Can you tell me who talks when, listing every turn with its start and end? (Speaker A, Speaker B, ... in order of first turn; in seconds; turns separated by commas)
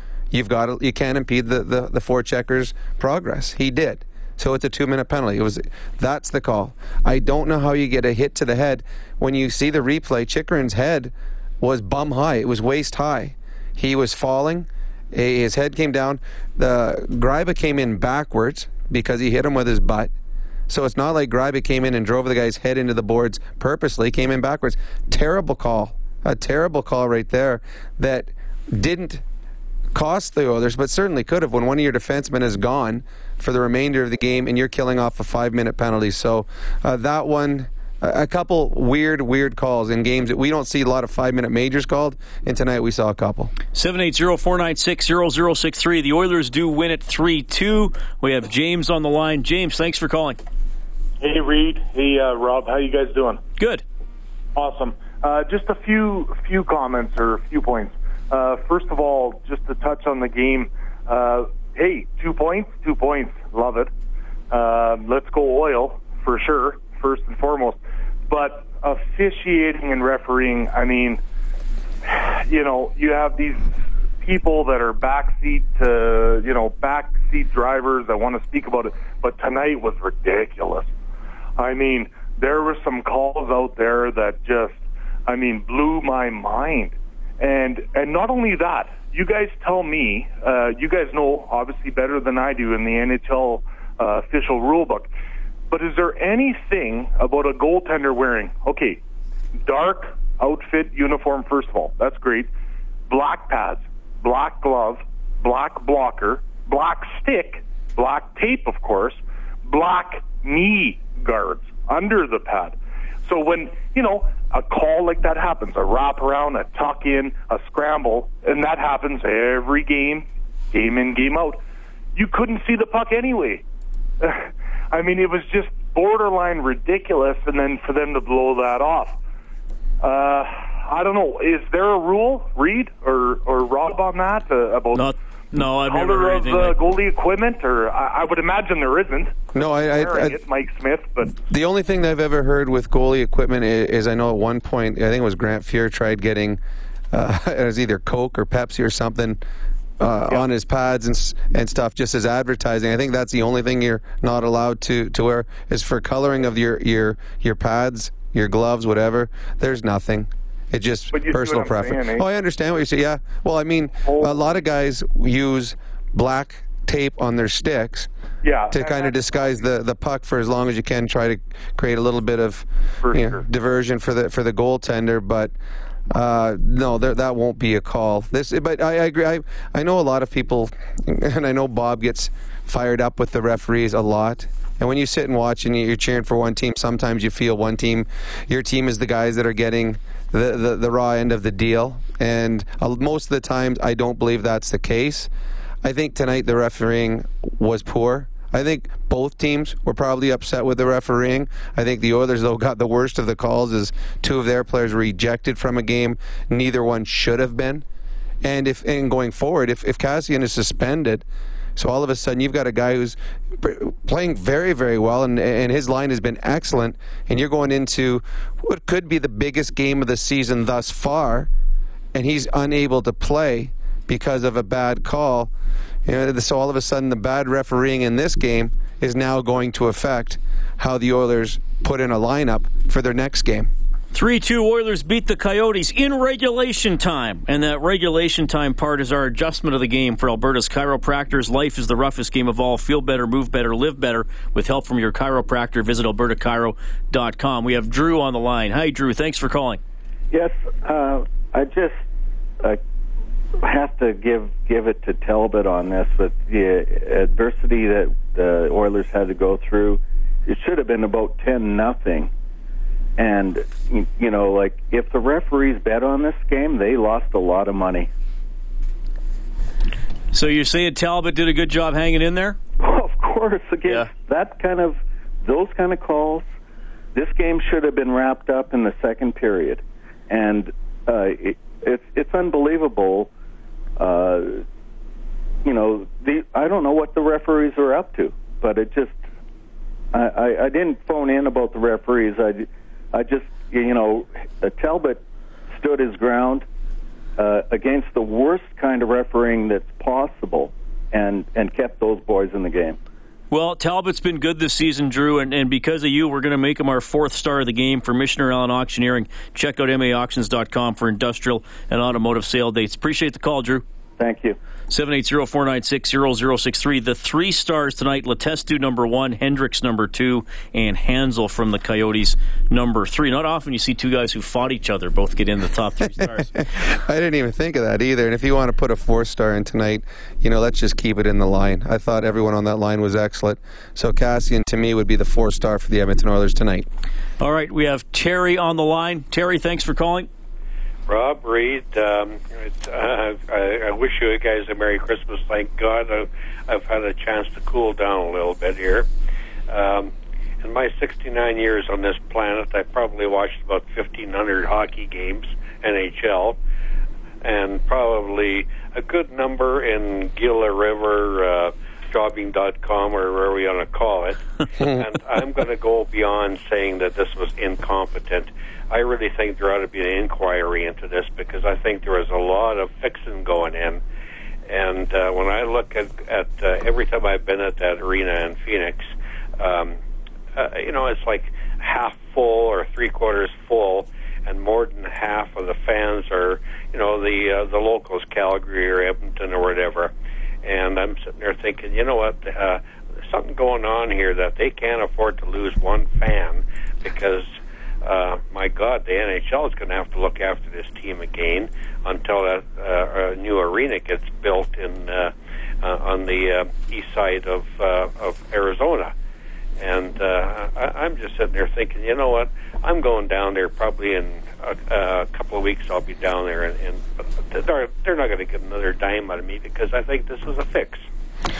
Speaker A: 0.3-20.1, Speaker A: 20.7-29.2, Speaker A: 29.9-43.5, Speaker B: 43.7-50.4, Speaker C: 51.2-53.4, Speaker B: 53.6-53.8, Speaker C: 54.5-63.9, Speaker C: 64.5-71.2, Speaker C: 72.0-73.7, Speaker C: 74.2-80.9, Speaker C: 81.6-95.1, Speaker C: 95.7-99.0, Speaker C: 99.6-102.5, Speaker C: 103.1-121.6, Speaker C: 122.1-123.6, Speaker C: 124.2-129.2, Speaker C: 130.0-135.1, Speaker B: 134.9-136.8, Speaker C: 135.7-141.3, Speaker A: 139.5-140.4, Speaker A: 141.5-146.6, Speaker A: 147.1-149.4, Speaker A: 150.0-168.1, Speaker C: 161.1-162.3, Speaker C: 164.0-164.6, Speaker C: 168.4-169.6, Speaker A: 168.7-175.5, Speaker C: 173.0-173.4, Speaker A: 176.1-195.3, Speaker A: 195.8-207.8, Speaker A: 208.4-211.2, Speaker A: 211.8-221.5, Speaker A: 222.1-225.5, Speaker A: 226.1-233.7, Speaker B: 234.1-249.8, Speaker D: 250.3-252.0, Speaker D: 253.6-262.3, Speaker D: 263.2-268.1, Speaker B: 270.3-272.6, Speaker D: 272.8-276.5, Speaker D: 277.1-283.3, Speaker D: 284.0-284.6, Speaker D: 285.6-289.2, Speaker D: 290.1-296.6, Speaker D: 297.4-303.0, Speaker B: 303.5-313.8, Speaker D: 314.2-314.6, Speaker B: 314.9-326.5, Speaker A: 326.1-336.9, Speaker B: 337.4-340.3, Speaker E: 341.1-349.1, Speaker E: 349.7-356.6, Speaker E: 357.4-374.0, Speaker E: 374.7-380.0, Speaker E: 380.5-397.4, Speaker E: 398.0-409.1, Speaker E: 409.8-421.1